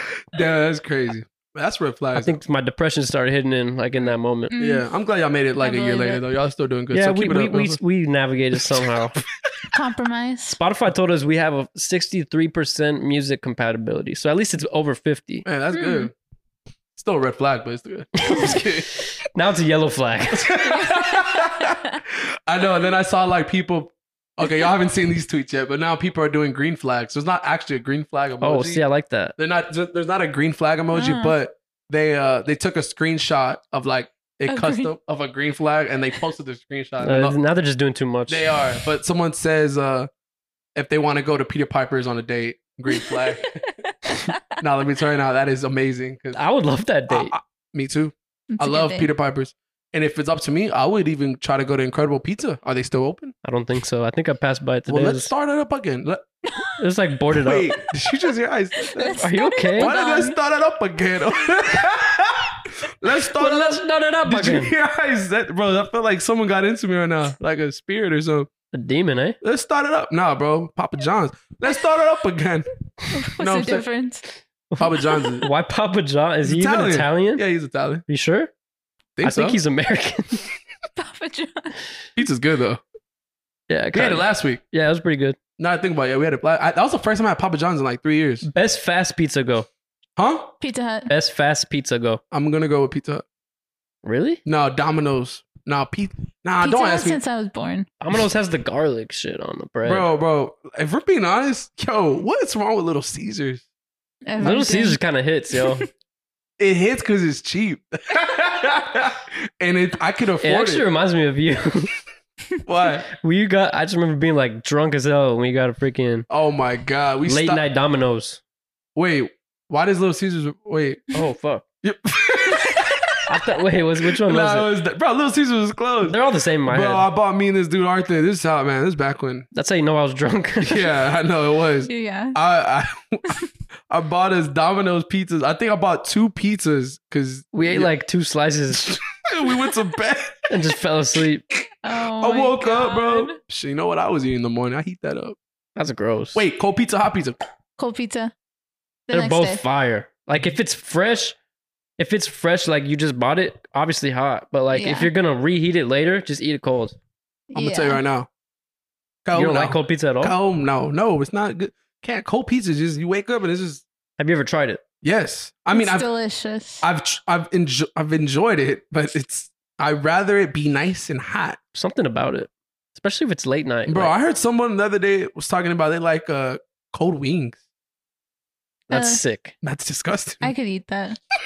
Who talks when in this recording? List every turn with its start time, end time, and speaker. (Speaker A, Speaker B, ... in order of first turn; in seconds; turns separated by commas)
Speaker A: 0.3-2.4, Speaker B: 2.1-4.5, Speaker C: 4.5-4.9, Speaker A: 4.6-7.8, Speaker C: 5.6-6.2, Speaker B: 6.9-9.2, Speaker C: 9.7-10.6, Speaker B: 10.5-15.5, Speaker A: 15.4-16.1, Speaker C: 15.7-16.1, Speaker A: 17.0-18.9, Speaker B: 18.3-18.7, Speaker B: 19.3-20.6, Speaker A: 20.3-28.8, Speaker C: 20.8-21.9, Speaker B: 28.4-29.3, Speaker A: 29.4-37.4, Speaker C: 30.9-31.4, Speaker C: 34.5-34.9, Speaker B: 37.0-38.5, Speaker A: 38.3-40.1, Speaker A: 40.8-43.6, Speaker C: 42.9-44.4, Speaker A: 44.6-46.4, Speaker B: 46.3-47.3, Speaker A: 47.1-53.3, Speaker C: 48.5-49.1, Speaker B: 53.4-55.3, Speaker A: 54.9-56.2, Speaker B: 56.8-57.8, Speaker A: 57.4-68.5, Speaker C: 58.8-60.4, Speaker B: 59.1-59.9, Speaker B: 63.4-64.7, Speaker B: 68.7-69.4, Speaker A: 69.4-72.7, Speaker C: 73.1-74.2, Speaker A: 73.4-73.8, Speaker A: 74.8-75.5, Speaker B: 75.4-77.4, Speaker A: 76.4-78.0, Speaker B: 78.1-78.5, Speaker A: 79.2-79.6, Speaker B: 79.2-80.4, Speaker C: 81.0-81.8, Speaker A: 82.2-82.8, Speaker B: 83.7-85.4, Speaker A: 83.9-84.6, Speaker A: 85.6-88.5, Speaker B: 88.4-89.7, Speaker A: 90.2-90.5, Speaker C: 90.6-91.1, Speaker B: 91.1-92.2, Speaker A: 92.3-93.2, Speaker B: 94.0-94.4, Speaker A: 94.5-97.2, Speaker C: 96.6-97.9, Speaker B: 98.0-100.1, Speaker A: 99.8-103.6, Speaker C: 104.3-105.0, Speaker B: 104.4-105.9, Speaker C: 105.5-105.8, Speaker A: 106.6-110.8, Speaker B: 110.4-111.9, Speaker A: 112.7-113.1, Speaker B: 113.2-116.3, Speaker A: 116.3-117.6, Speaker B: 117.3-118.4, Speaker A: 119.0-121.1, Speaker B: 121.1-121.7, Speaker A: 121.8-123.2, Speaker B: 123.3-124.7, Speaker A: 124.2-129.5, Speaker B: 126.0-127.1, Speaker B: 129.5-130.9, Speaker A: 130.6-133.3, Speaker C: 131.9-132.4, Speaker A: 133.9-137.9, Speaker B: 137.5-139.0, Speaker A: 138.8-140.5, Speaker B: 140.5-141.4, Speaker C: 141.8-143.4, Speaker A: 142.2-145.4, Speaker B: 145.8-146.4, Speaker A: 146.3-147.4, Speaker C: 147.8-148.3, Speaker C: 149.1-149.6, Speaker B: 149.1-151.4, Speaker B: 152.0-157.0, Speaker C: 154.7-155.1, Speaker C: 157.5-158.0, Speaker A: 157.6-158.3, Speaker A: 159.2-163.9, Speaker B: 159.3-160.4, Speaker B: 164.2-164.8, Speaker A: 165.0-166.1, Speaker C: 165.7-166.8, Speaker A: 166.8-171.6, Speaker B: 171.7-174.1, Speaker A: 173.9-177.6, Speaker B: 178.9-179.6, Speaker C: 178.9-179.2, Speaker A: 179.6-180.5, Speaker C: 180.4-181.2